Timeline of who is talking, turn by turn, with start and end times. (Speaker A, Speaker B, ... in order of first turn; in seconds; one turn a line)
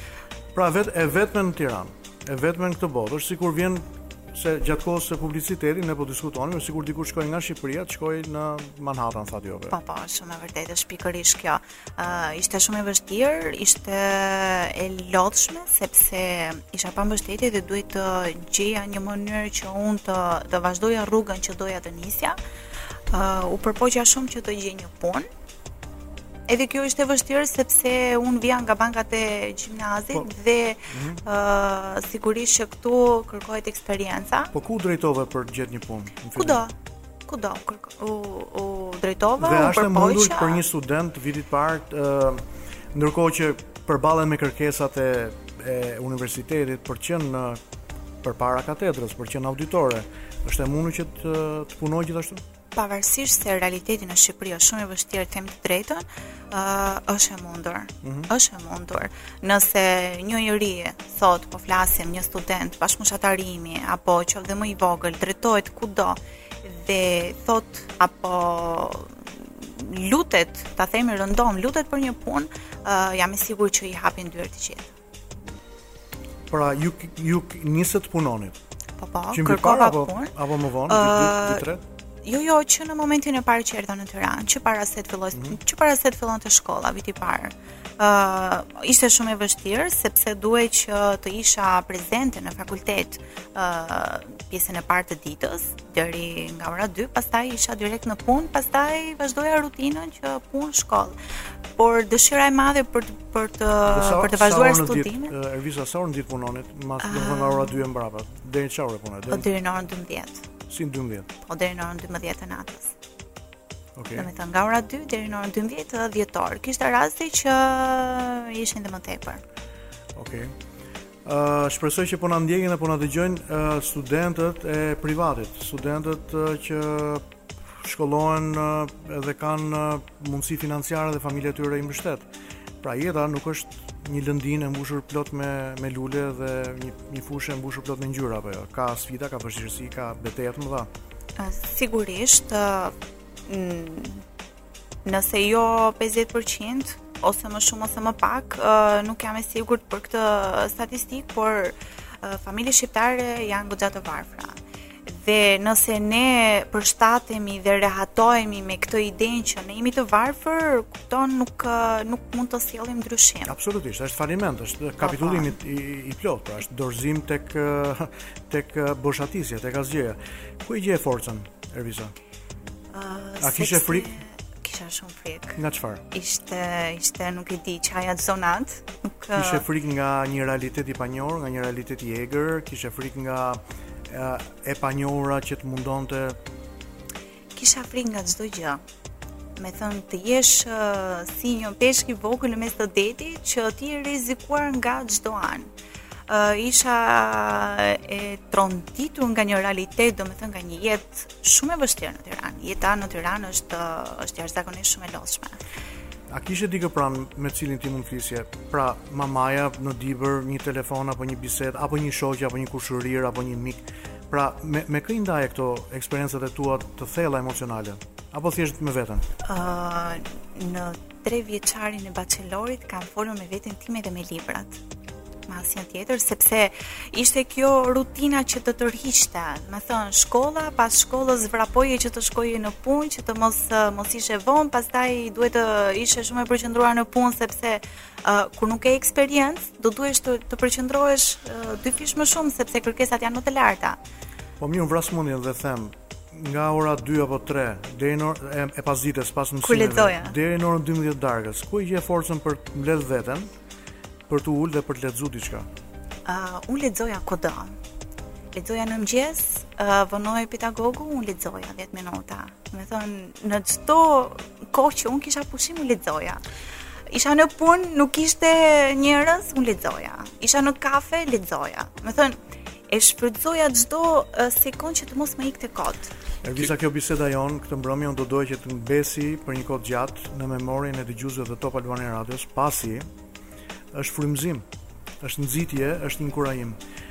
Speaker A: 0.5-9.7
Speaker B: 9.7-22.4
Speaker B: 23.1-25.3
Speaker B: 26.5-34.5
Speaker A: 30.9-31.2
Speaker A: 34.5-36.6
Speaker B: 36.4-36.7
Speaker B: 37.3-40.6
Speaker A: 39.4-47.6
Speaker A: 48.2-52.4
Speaker B: 52.7-74.9
Speaker A: 58.0-58.3
Speaker A: 76.5-78.6
Speaker B: 79.0-81.7
Speaker A: 79.3-81.8
Speaker B: 82.2-101.2
Speaker B: 101.8-105.3
Speaker A: 103.9-109.5
Speaker B: 107.0-107.8
Speaker B: 109.3-110.4
Speaker A: 110.7-111.3
Speaker B: 111.4-112.9
Speaker A: 114.0-114.3
Speaker B: 114.1-119.4
Speaker A: 120.1-120.5
Speaker A: 121.2-132.3
Speaker A: 132.8-140.9
Speaker B: 141.4-142.9
Speaker B: 143.5-144.2
Speaker B: 145.0-163.5
Speaker A: 163.5-172.1
Speaker B: 165.0-165.5
Speaker B: 172.9-175.6
Speaker A: 173.4-174.1
Speaker A: 175.6-176.0
Speaker B: 176.1-179.6
Speaker A: 179.3-186.4
Speaker B: 187.5-188.8
Speaker B: 189.6-195.7
Speaker B: 196.3-205.6
Speaker A: 206.3-219.2
Speaker B: 219.4-224.8
Speaker B: 225.5-244.0
Speaker A: 244.6-253.5
Speaker B: 249.6-250.3
Speaker A: 254.3-255.7
Speaker B: 256.2-257.7
Speaker B: 258.5-266.4
Speaker B: 267.1-272.4
Speaker B: 272.9-276.1
Speaker A: 276.4-283.1
Speaker A: 283.9-284.6
Speaker A: 285.2-286.8